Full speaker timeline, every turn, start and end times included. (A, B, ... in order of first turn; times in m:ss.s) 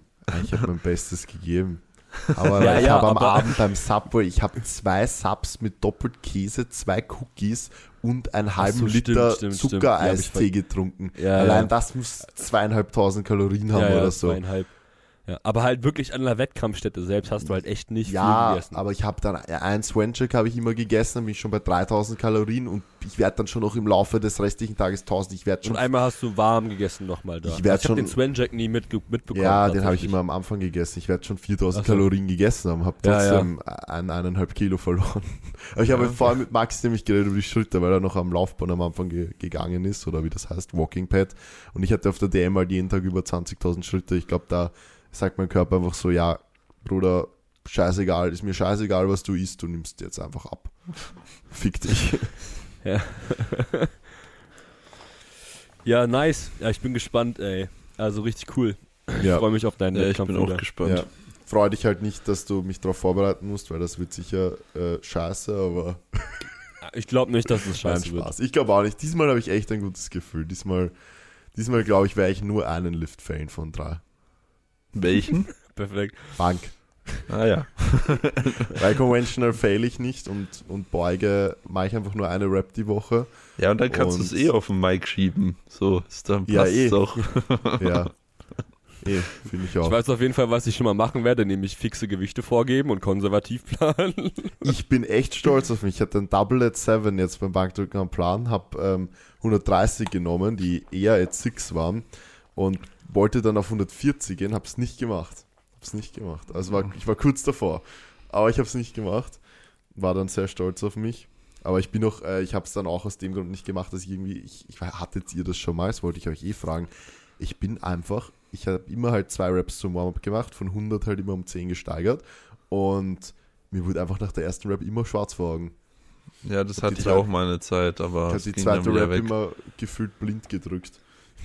0:00.3-0:14.4 A
0:02.6-0:03.6 B
0:08.6-0:10.5 B
0:11.2-0:11.7 B
0:13.7-0:14.7 B
0:15.2-0:18.8 B
0:18.0-0:25.9 A
0:25.6-0:30.2 B
0:27.4-0:28.2 A
0:29.3-0:52.4 A
0:31.7-0:32.1 B
0:33.0-0:33.5 B
0:52.8-0:53.9 B
0:55.8-1:00.6 B
0:59.2-0:59.4 A
0:59.9-1:01.1 C
1:00.8-1:06.5 A
1:06.8-1:08.3 B
1:07.6-1:10.9 A
1:11.5-1:14.0 A
1:14.9-1:15.5 C
1:15.6-1:16.4 B
1:16.4-1:16.8 A
1:17.3-1:18.8 C
1:18.7-1:24.5 A
1:23.6-1:28.1 C
1:26.5-1:27.2 A
1:27.8-1:28.1 A
1:29.0-1:30.0 A
1:29.8-1:34.7 B
1:34.6-1:49.4 A
1:49.9-2:05.8 A
2:06.4-2:09.3 C
2:06.8-2:07.3 A
2:08.3-2:11.0 A